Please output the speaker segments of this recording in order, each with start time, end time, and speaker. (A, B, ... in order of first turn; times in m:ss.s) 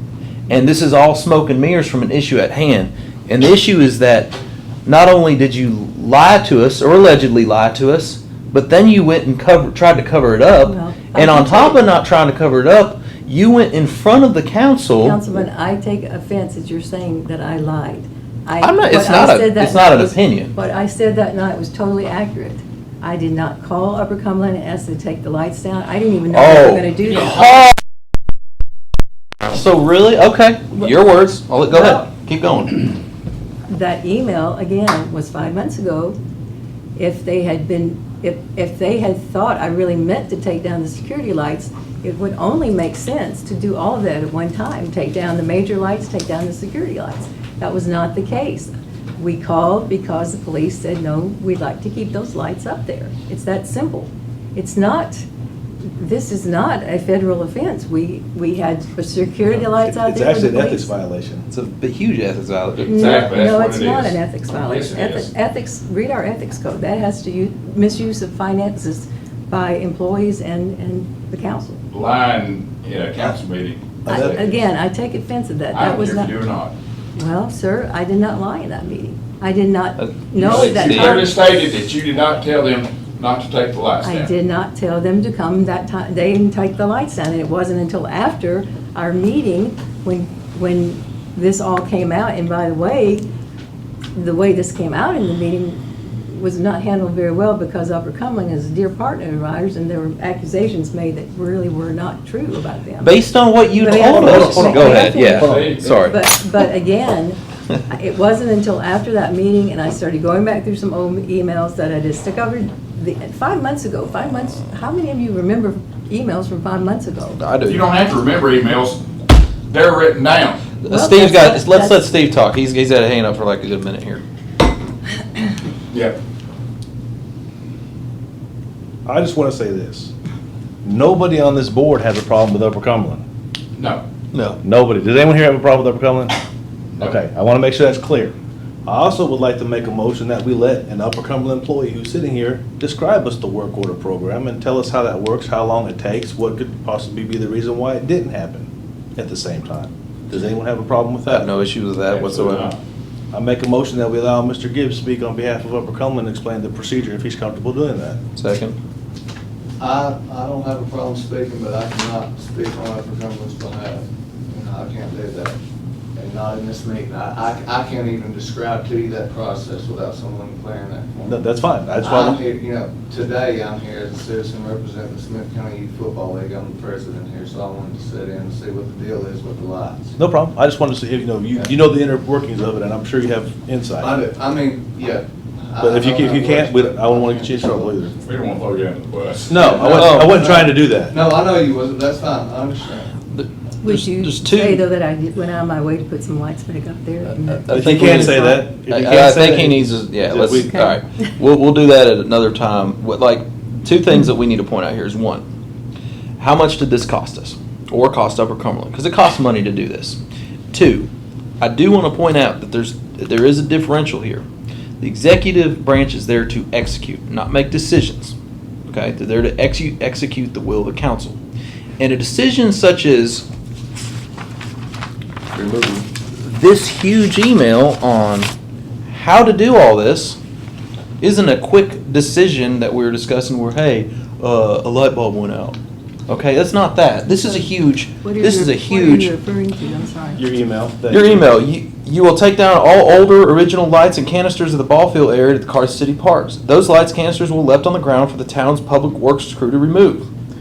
0:00.5-0:04.3 A
0:04.8-0:15.4 A
0:10.6-0:11.9 B
0:15.0-0:27.5 B
0:18.6-0:20.5 A
0:26.3-0:27.0 A
0:29.5-0:32.9 A
0:31.7-0:32.0 B
0:33.7-0:36.2 B
0:37.0-0:55.3 B
0:56.0-1:00.9 B
0:59.6-1:01.5 C
1:01.5-1:03.3 A
1:02.8-1:05.3 D
1:02.9-1:11.8 B
1:11.9-1:14.3 D
1:14.0-1:14.6 C
1:14.1-1:16.3 B
1:15.7-1:16.7 D
1:17.2-1:21.4 B
1:20.0-1:21.2 A
1:20.3-1:24.3 D
1:24.0-1:33.3 B
1:34.2-1:57.4 B
1:43.0-1:46.2 A
1:44.5-1:45.6 C
1:44.6-1:46.0 D
1:57.4-1:57.9 A
1:57.6-1:59.0 D
1:59.7-2:00.7 D
2:00.8-2:04.2 A
2:00.8-2:02.1 B
2:05.9-2:06.2 D
2:09.0-2:10.1 C
2:10.8-2:13.2 C
2:13.8-2:14.0 D
2:14.3-2:14.6 A
2:14.6-2:16.3 C
2:17.0-2:18.3 C
2:18.8-2:31.5 C
2:31.3-2:32.7 A
2:32.1-2:32.8 D
2:33.3-2:38.2 C
2:38.4-2:38.8 A
2:39.8-2:45.6 E
2:46.2-2:51.5 E
2:51.3-2:52.4 C
2:52.0-3:00.1 E
3:00.2-3:04.2 C
3:04.0-3:08.1 E
3:05.8-3:08.1 C
3:08.2-3:10.0 D
3:09.5-3:11.2 C
3:09.5-3:13.1 E
3:09.9-3:10.6 A
3:13.3-3:14.8 A
3:13.8-3:18.5 B
3:17.4-3:25.4 A
3:17.7-3:20.9 C
3:26.4-3:30.2 A
3:30.7-3:34.4 A
3:35.0-3:38.3 A
3:38.9-3:41.4 A
3:42.0-3:43.4 A
3:45.5-3:46.0 E
3:46.4-3:48.5 A
3:49.1-3:50.4 A
3:51.2-3:55.8 A
3:56.3-3:59.3 A
3:58.2-4:00.4 B
4:00.4-4:01.4 C
4:01.1-4:10.3 A